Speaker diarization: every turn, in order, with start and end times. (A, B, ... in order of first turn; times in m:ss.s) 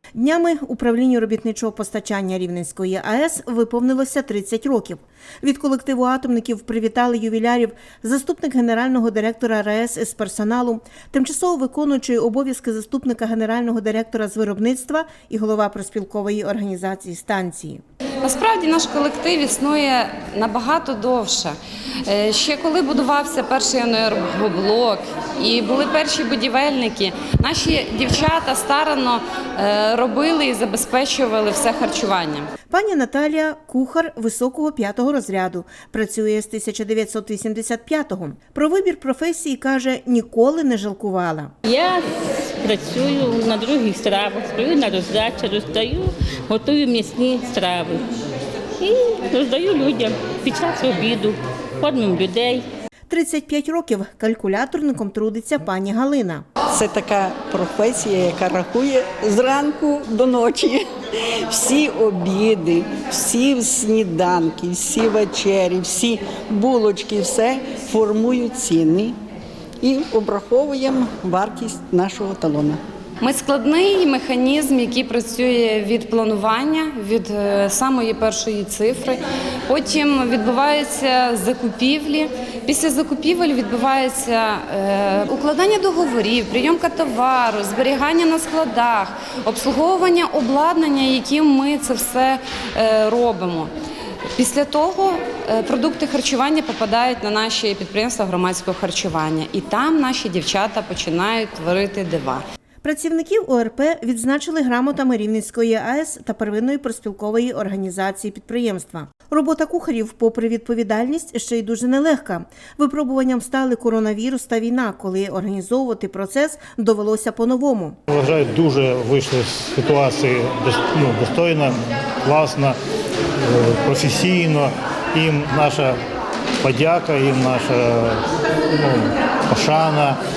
0:00.2-0:17.8 A
0:18.2-0:21.5 B
0:22.0-0:32.5 B
0:32.7-0:41.5 A
0:41.6-0:48.0 C
0:48.8-0:52.6 C
0:53.1-0:56.4 A
0:56.7-1:09.2 D
1:09.8-1:12.8 D
1:13.2-1:33.7 B
1:34.4-1:42.4 B
1:42.8-1:58.0 A
1:58.1-2:02.8 E
2:03.4-2:06.0 E
2:06.6-2:10.2 E